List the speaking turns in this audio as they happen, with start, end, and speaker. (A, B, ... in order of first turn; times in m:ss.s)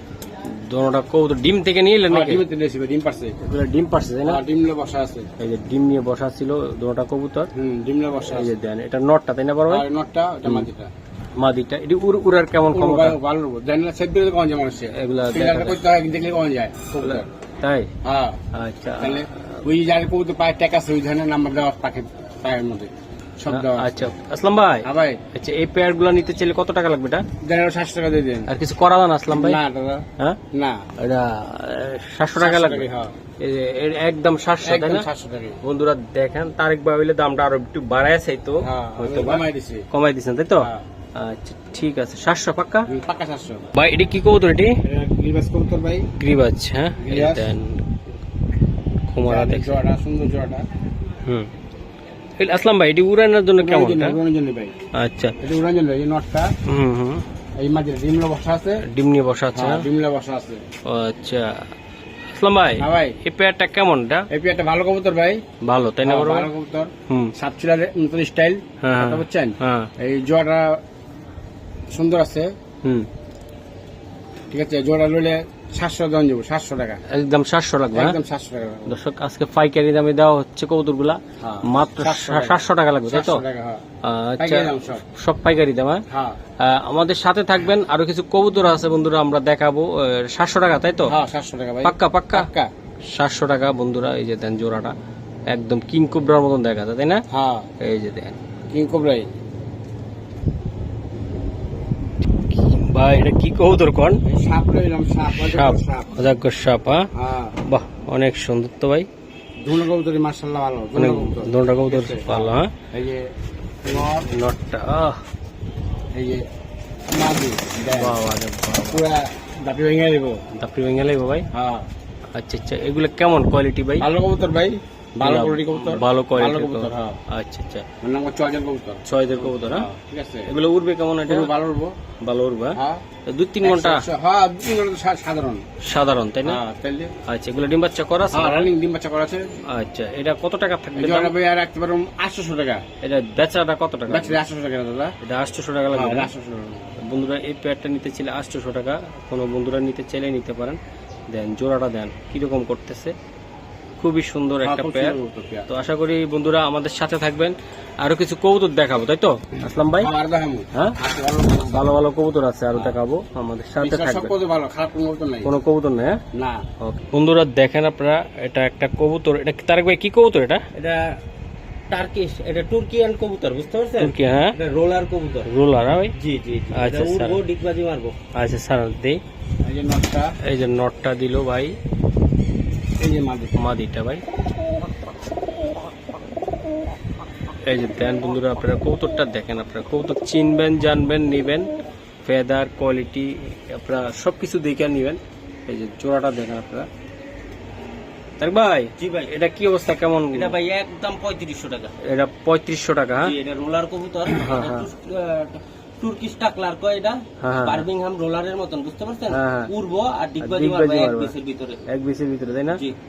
0:00.4-0:02.4 A
0:02.1-0:03.4 B
0:03.4-0:04.4 A
0:04.2-0:05.3 B
0:05.4-0:07.5 A
0:07.6-0:08.5 B
0:08.3-0:09.9 A
0:09.7-0:10.9 B
0:11.4-0:13.2 A
0:12.7-0:17.3 B
0:14.9-0:15.8 A
0:17.0-0:17.9 A
0:18.0-0:18.4 B
0:18.5-0:19.6 A
0:19.0-0:24.1 B
0:23.5-0:27.2 A
0:24.8-0:25.2 B
0:27.4-0:28.5 B
0:28.5-0:29.6 A
0:29.3-0:30.8 B
0:31.0-0:32.9 A
0:32.4-0:33.1 B
0:33.4-0:35.1 A
0:34.6-0:35.6 B
0:35.6-0:42.9 A
0:38.6-0:39.9 B
0:40.6-0:40.8 B
0:42.9-0:43.7 B
0:43.8-0:44.8 A
0:44.8-0:46.1 B
0:46.2-0:47.9 A
0:47.0-0:47.5 B
0:49.1-0:49.8 A
0:49.2-0:50.6 B
0:51.2-0:51.5 A
0:52.4-0:54.2 A
0:53.6-0:54.8 B
0:55.0-0:55.4 A
0:55.4-0:56.5 B
0:56.6-0:57.2 A
0:57.6-0:58.8 B
0:58.9-0:59.9 A
0:59.5-1:00.6 B
1:00.9-1:01.6 A
1:02.3-1:04.3 A
1:02.8-1:03.2 B
1:04.3-1:05.4 B
1:05.6-1:06.5 A
1:06.0-1:10.8 B
1:07.1-1:07.3 A
1:08.8-1:09.9 A
1:11.9-1:12.5 B
1:14.5-1:17.0 B
1:17.1-1:18.2 A
1:17.9-1:19.0 B
1:18.9-1:23.4 A
1:21.4-1:23.8 B
1:24.0-1:26.0 A
1:24.4-1:25.0 B
1:26.1-1:26.4 B
1:26.6-1:31.2 A
1:31.1-1:32.7 B
1:31.8-1:32.5 A
1:33.1-1:35.0 A
1:35.5-1:37.2 A
1:37.3-1:37.7 B
1:37.8-1:38.4 A
1:38.7-1:39.3 B
1:42.5-1:44.2 A
1:44.2-1:46.2 B
1:45.4-1:47.1 A
1:47.1-1:47.6 B
1:47.6-1:49.1 A
1:49.6-1:53.3 B
1:51.0-1:52.7 A
1:53.8-1:54.3 B
1:54.2-1:55.2 A
1:56.1-1:56.4 B
1:57.1-1:58.2 B
1:57.9-1:59.0 A
1:58.9-2:00.4 B
2:00.5-2:01.5 A
2:01.5-2:01.9 B
2:02.3-2:04.1 A
2:04.0-2:07.2 B
2:05.2-2:07.9 A
2:08.0-2:10.5 B
2:09.0-2:09.9 A
2:10.5-2:11.5 A
2:11.3-2:11.9 B
2:12.2-2:14.1 A
2:12.8-2:13.0 B
2:13.6-2:15.6 B
2:15.8-2:16.6 A
2:16.4-2:17.1 B
2:17.3-2:18.7 A
2:18.3-2:19.5 B
2:19.7-2:21.4 A
2:20.9-2:22.8 B
2:23.0-2:24.4 A
2:24.1-2:25.1 B
2:25.2-2:26.3 A
2:25.9-2:27.0 B
2:27.0-2:30.8 A
2:31.3-2:33.1 A
2:34.0-2:35.2 A
2:34.6-2:35.7 B
2:35.7-2:40.1 A
2:40.0-2:42.0 B
2:41.6-2:44.3 A
2:42.7-2:43.0 B
2:43.8-2:45.5 B
2:45.4-2:46.2 A
2:46.4-2:46.6 B
2:46.8-2:50.6 A
2:50.7-2:51.2 C
2:51.9-2:55.5 C
2:54.0-2:54.6 A
2:55.4-2:56.2 A
2:56.1-2:58.2 C
2:56.7-2:57.4 A
2:58.3-2:59.2 A
2:59.6-3:00.4 B
3:00.4-3:01.8 A
3:03.0-3:03.6 B
3:03.6-3:04.2 A
3:07.6-3:11.7 A
3:12.2-3:16.9 A
3:18.4-3:20.6 A
3:19.0-3:19.4 C
3:20.3-3:22.0 C
3:22.0-3:23.4 A
3:23.2-3:31.8 C
3:24.3-3:24.9 A
3:27.4-3:27.9 A
3:29.3-3:29.7 A
3:30.4-3:31.4 A
3:31.9-3:32.8 A